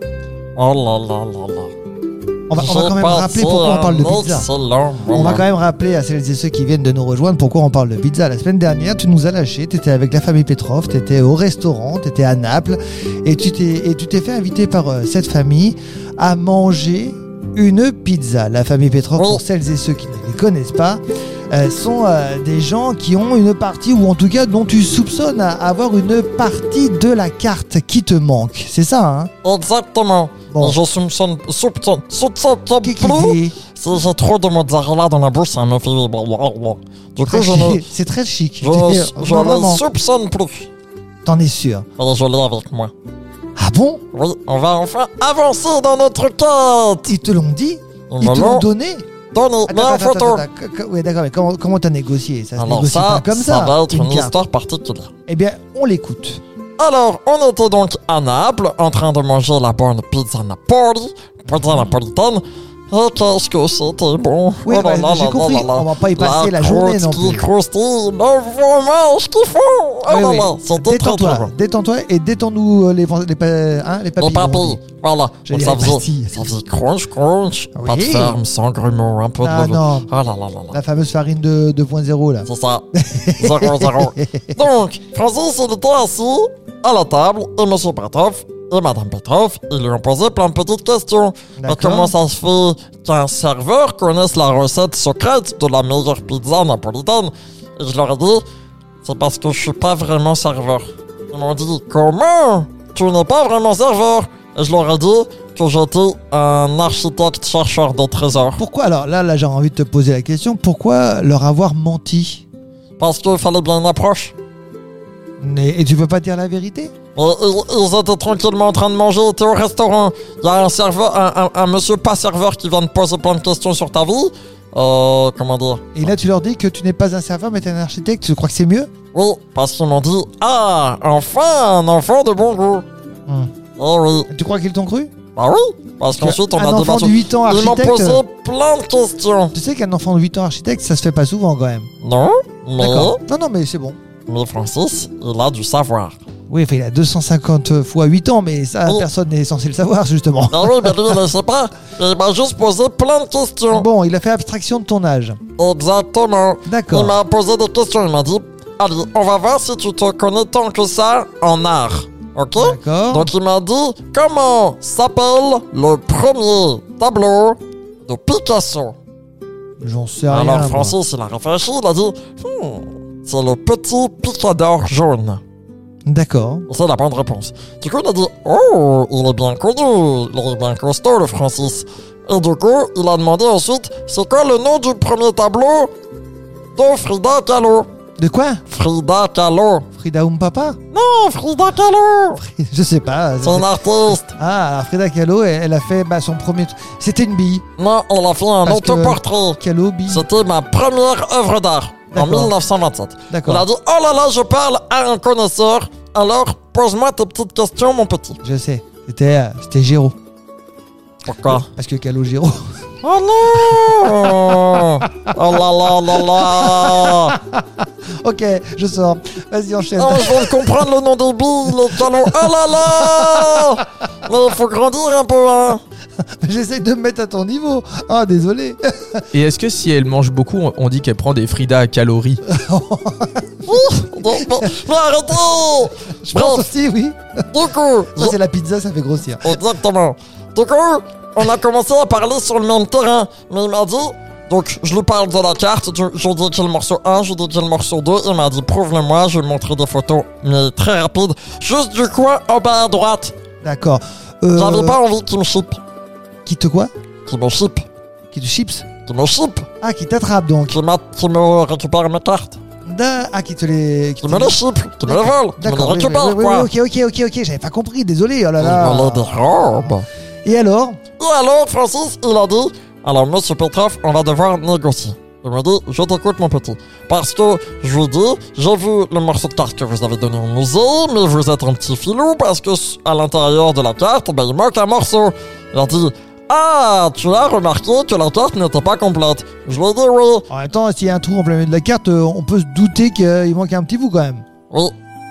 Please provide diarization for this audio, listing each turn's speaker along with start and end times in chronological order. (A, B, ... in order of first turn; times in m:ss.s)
0:00.5-0:01.7 A
0:02.5-0:04.5 B
0:02.5-0:05.4 A
0:05.1-0:29.3 B
0:19.2-0:19.4 A
0:29.4-0:37.9 A
0:30.5-0:30.8 B
0:32.8-0:33.6 B
0:37.2-0:39.8 B
0:38.6-0:40.7 A
0:41.2-0:41.8 B
0:42.0-0:42.9 A
0:43.6-0:44.0 B
0:44.1-0:47.1 A
0:47.0-0:49.1 B
0:48.1-0:48.7 A
0:49.3-0:50.5 A
0:49.6-0:54.3 B
0:52.6-0:55.1 A
0:55.3-0:56.4 B
0:56.8-1:11.5 A
1:01.5-1:01.9 B
1:04.6-1:07.5 B
1:10.0-1:14.8 B
1:14.2-1:20.8 A
1:15.4-1:16.4 B
1:17.7-1:18.4 B
1:19.4-1:20.1 B
1:20.7-1:24.6 B
1:22.4-1:38.4 A
1:31.6-1:32.2 B
1:39.0-1:48.6 A
1:48.6-1:52.4 B
1:53.0-1:54.3 A
1:55.4-1:56.9 B
1:57.1-2:06.1 A
2:05.9-2:08.9 B
2:09.1-2:12.8 A
2:13.3-2:13.5 B
2:13.8-2:14.3 A
2:14.3-2:15.1 B
2:15.3-2:19.5 A
2:16.1-2:18.2 B
2:19.5-2:21.9 B
2:22.0-2:23.2 A
2:22.8-2:24.0 B
2:24.3-2:26.2 A
2:26.5-2:31.2 B
2:30.5-2:33.9 A
2:33.7-2:35.4 B
2:35.6-2:49.0 A
2:36.6-2:37.2 B
2:42.5-2:43.3 B
2:49.8-2:51.0 B
2:50.3-2:55.4 A
2:56.0-2:56.6 B
2:56.7-3:05.9 A
3:06.7-3:07.9 A
3:08.2-3:08.6 B
3:08.7-3:09.9 A
3:09.9-3:10.8 B
3:10.9-3:12.4 A
3:12.4-3:17.6 B
3:13.4-3:14.3 A
3:17.8-3:28.4 A
3:18.6-3:20.3 B
3:22.1-3:22.5 B
3:23.3-3:23.7 B
3:28.4-3:30.1 B
3:31.2-3:31.7 A
3:31.5-3:32.8 B
3:33.0-3:37.4 A
3:35.0-3:35.3 B
3:36.1-3:40.9 B
3:40.0-3:45.8 A
3:42.1-3:43.8 B
3:46.4-3:49.2 B
3:49.3-3:52.4 C
3:52.4-3:53.7 B
3:53.6-3:56.7 A
3:54.4-3:54.7 B
3:56.0-3:57.4 B
3:57.5-3:58.4 A
3:58.1-3:59.6 B
3:59.4-4:13.3 A
4:13.6-4:15.0 B
4:14.5-4:15.8 A
4:16.4-4:16.9 B
4:17.2-4:17.8 A
4:18.3-4:18.9 B
4:19.0-4:19.7 A
4:19.8-4:20.8 B
4:20.7-4:22.6 A
4:22.8-4:29.4 B
4:24.2-4:26.7 A
4:28.6-4:30.1 A
4:30.4-4:31.0 B
4:31.2-4:50.5 A
4:50.5-4:54.4 B
4:54.7-4:54.9 A